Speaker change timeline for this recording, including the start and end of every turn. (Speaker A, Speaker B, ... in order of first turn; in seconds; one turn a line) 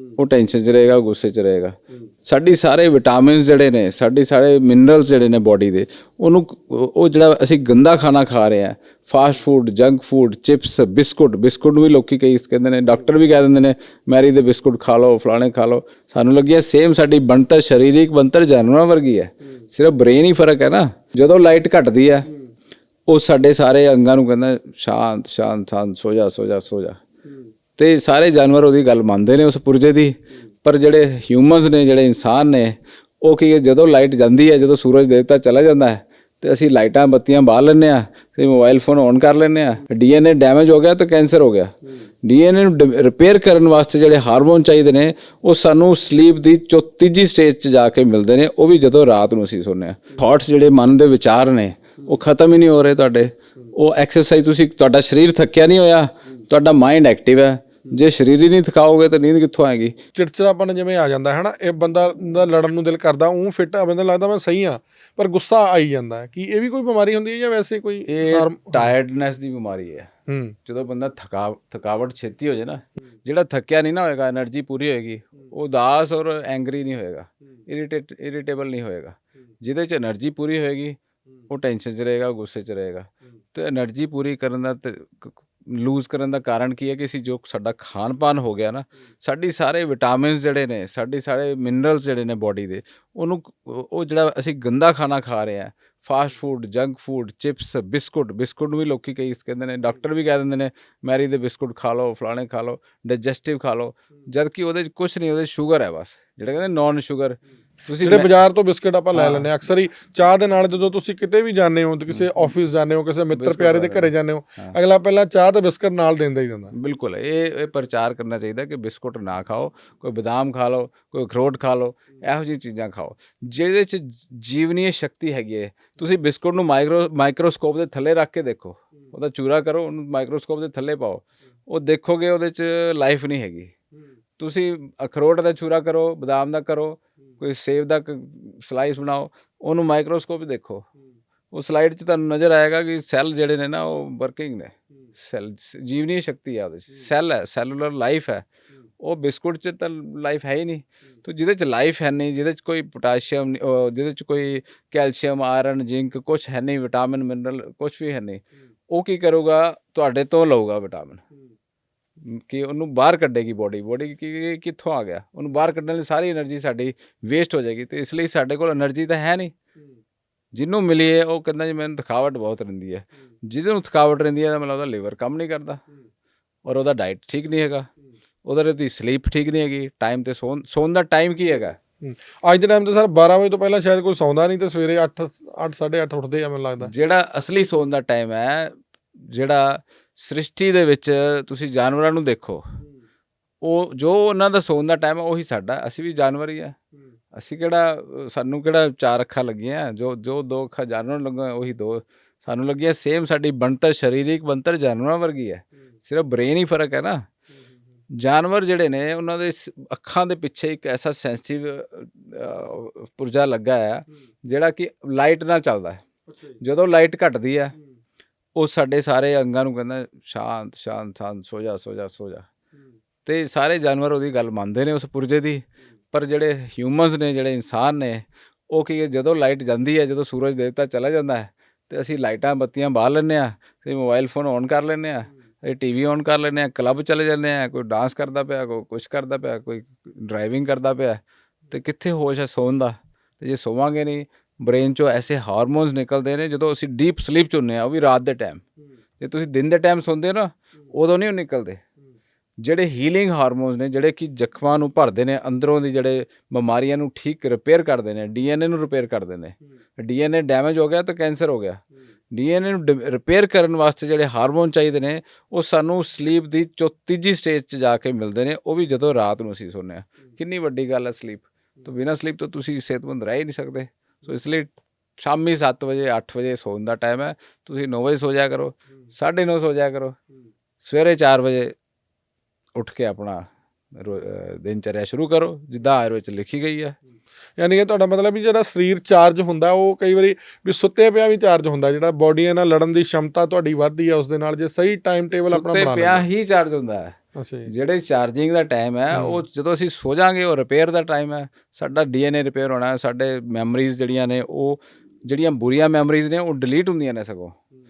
Speaker A: 0.1-22.3
Speaker A: 23.1-27.0
Speaker A: 27.8-60.0
Speaker B: 60.1-69.0
Speaker A: 68.1-70.1
Speaker B: 70.3-70.6
Speaker A: 70.7-81.0
Speaker A: 81.5-108.3
Speaker B: 108.0-116.7
Speaker A: 109.1-109.5
Speaker A: 113.3-114.8
Speaker A: 116.7-133.7
Speaker A: 134.4-140.8
Speaker A: 141.5-148.4
Speaker A: 149.0-161.2
Speaker A: 162.3-169.5
Speaker A: 170.5-175.8
Speaker A: 176.6-177.9
Speaker A: 178.4-181.8
Speaker B: 182.0-186.9
Speaker A: 186.8-192.6
Speaker A: 193.6-196.7
Speaker A: 197.3-207.2
Speaker A: 208.2-216.0
Speaker A: 216.6-217.7
Speaker A: 218.6-222.5
Speaker A: 223.2-241.2
Speaker A: 241.7-248.6
Speaker A: 249.2-251.8
Speaker A: 252.6-261.8
Speaker A: 262.3-280.2
Speaker A: 280.8-281.7
Speaker A: 282.8-287.0
Speaker B: 287.6-296.2
Speaker A: 295.5-297.2
Speaker B: 297.4-297.7
Speaker A: 297.7-307.6
Speaker B: 299.1-299.4